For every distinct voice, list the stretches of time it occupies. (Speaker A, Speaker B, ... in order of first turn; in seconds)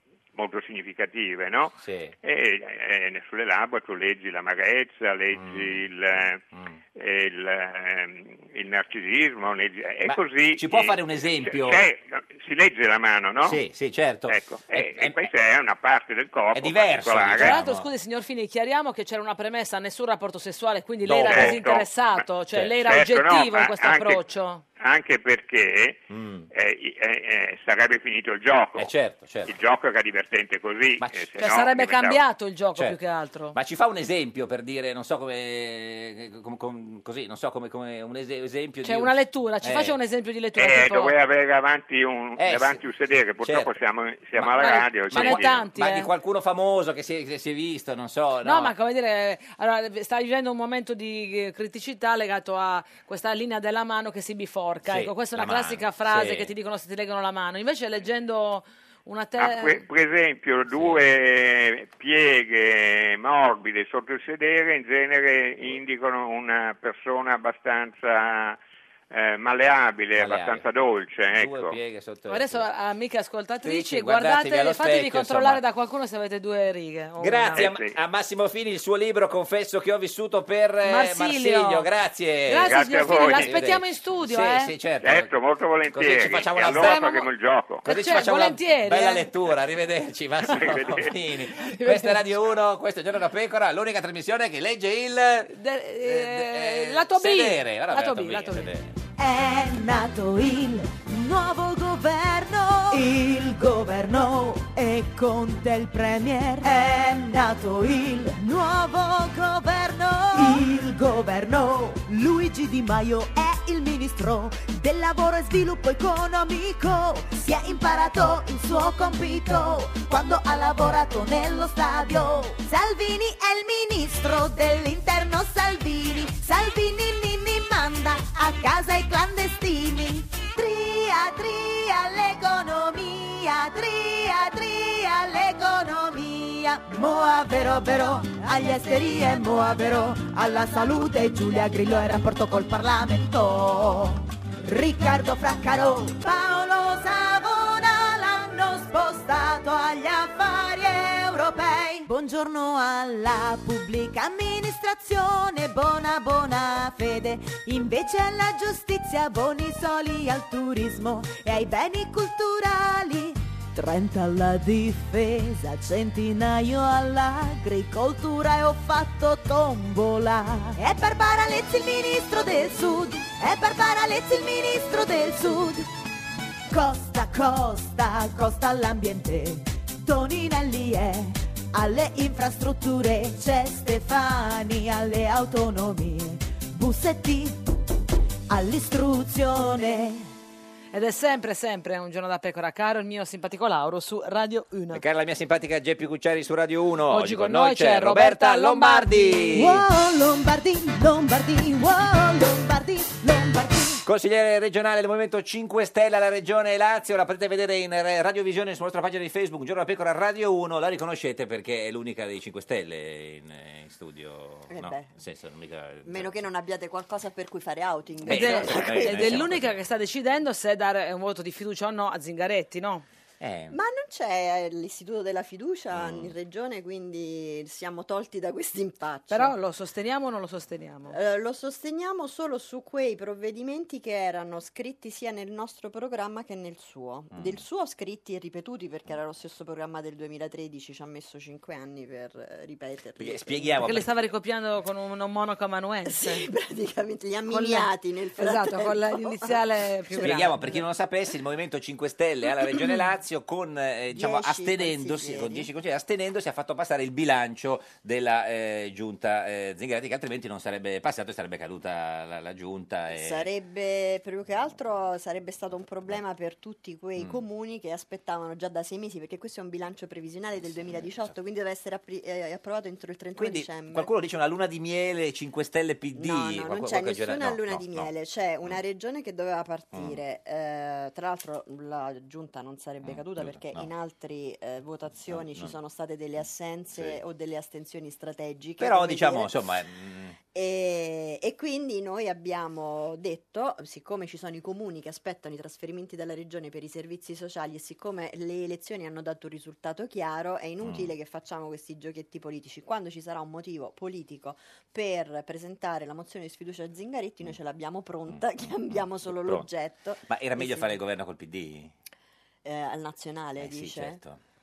Speaker A: 0.3-6.4, 6.9-13.6, 14.3-17.5, 21.2-22.2, 22.8-24.2, 24.8-28.9, 29.4-32.2, 40.5-45.7, 59.4-68.6, 69.1-71.8, 77.5-77.9, 82.6-83.5, 85.0-87.8, 90.5-91.1
Speaker B: 1.8-2.1, 5.3-6.8, 10.0-11.8, 13.4-15.3, 16.5-17.9, 21.1-21.6, 22.5-22.8, 26.1-26.5, 28.8-29.5, 31.0-31.5, 33.5-39.9, 42.4-42.8, 43.4-43.7, 44.4-48.7, 54.8-56.5, 60.7-61.0, 70.2-70.6, 71.3-72.7, 73.6-75.6, 77.2-85.3, 85.9-87.2, 87.8-98.9, 194.9-199.8, 204.0-216.4, 218.2-219.8, 223.4-223.8, 225.9-226.3, 237.3-237.6, 243.2-244.1, 250.2-263.5, 273.4-278.1, 279.9-280.2, 283.0-283.9, 285.3-285.7, 286.9-287.2, 288.8-290.4, 300.8-301.1, 308.3-309.7, 310.3-311.9, 313.6-314.4
Speaker C: 17.4-24.6, 31.4-33.5, 38.8-41.1, 44.6-46.1, 48.4-59.8, 72.3-77.7, 80.8-81.8, 82.5-84.7, 86.7-87.3, 87.8-89.3, 91.6-92.2, 95.5-98.7, 190.9-195.0, 197.1-199.6, 218.2-223.0, 229.3-231.2, 243.8-246.4, 247.5-250.8
Speaker D: 99.2-175.9, 176.7-187.6, 188.5-190.3, 199.5-204.0
Speaker E: 214.7-215.1, 216.0-219.5, 223.7-229.5, 231.1-244.0, 246.1-250.8, 254.1-255.7, 263.1-274.1, 276.1-289.5, 290.5-311.0, 312.6-314.2